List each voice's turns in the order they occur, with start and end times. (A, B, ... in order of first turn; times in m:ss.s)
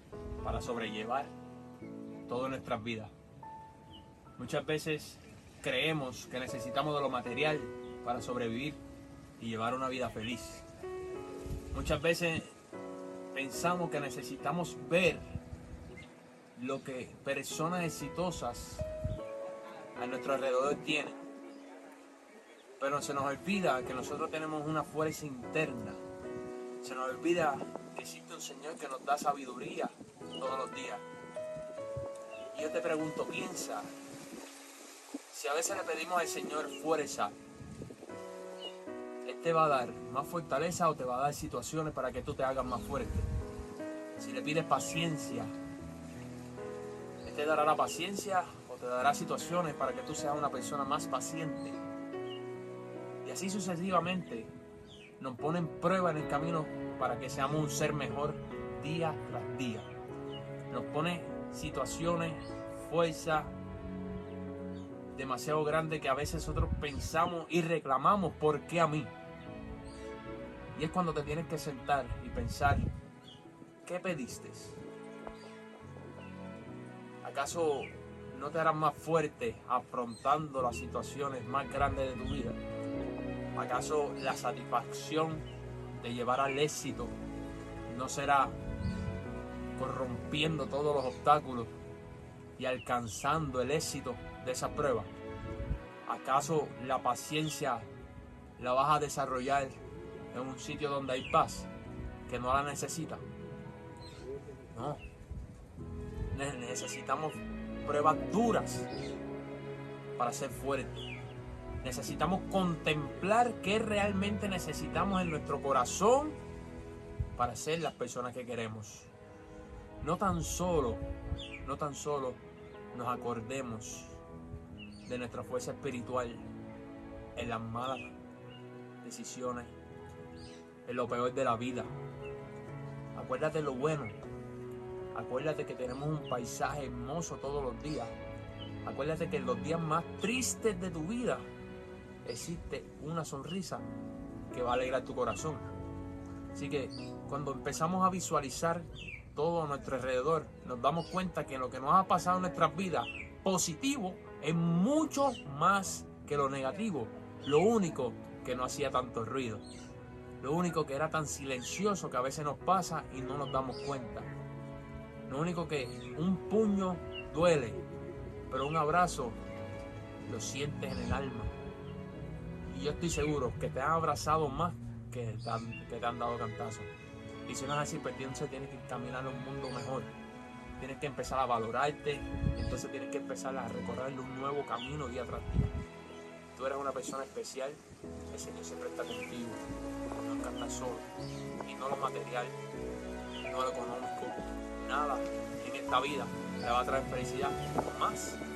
0:00.4-0:01.3 A
0:02.3-0:03.1 A
0:04.4-0:08.8 A
0:09.4-0:10.6 A
0:11.7-0:12.5 A
0:13.3-0:15.2 A
0:16.6-0:18.8 A
0:20.0-0:21.2 A
0:22.8-0:26.0 A
0:26.8-0:31.0 A
0:32.5-0:33.9 A
0:35.3-0:37.4 A
0:39.2-0:43.3 A
0:44.2-0:45.6 A
0:47.2-0:51.8 A
0:53.2-0:54.5 A
0:55.2-0:59.9 A
1:00.7-1:03.6 A
1:05.1-1:09.1 A
1:10.7-1:12.9 A
1:13.8-1:14.8 A
1:17.2-1:22.6 A
1:23.6-1:27.1 A
1:27.8-1:28.6 A
1:29.8-1:31.7 A
1:32.6-1:35.1 A
1:36.0-1:37.9 A
1:38.6-1:39.8 A
1:40.3-1:41.7 A
1:42.3-1:43.2 A
1:44.7-1:45.0 A
1:46.3-1:48.9 A
1:50.2-1:51.1 A
1:51.8-1:56.4 A
1:57.4-1:59.1 A
2:00.0-2:01.0 A
2:01.6-2:02.4 A
2:02.9-2:04.2 A
2:05.0-2:06.5 A
2:07.3-2:08.2 A
2:09.0-2:09.8 A
2:10.9-2:11.9 A
2:13.2-2:14.2 A
2:15.1-2:18.2 A
2:18.8-2:21.5 A
2:22.2-2:23.9 A
2:24.5-2:25.7 A
2:26.5-2:39.6 A
2:40.4-2:44.3 A
2:45.3-2:47.8 A
2:48.5-2:49.4 A
2:50.2-2:51.5 A
2:52.6-2:56.9 A
2:57.5-3:00.1 A
3:00.8-3:05.7 A
3:06.6-3:11.1 A
3:11.6-3:12.6 A
3:13.5-3:18.4 A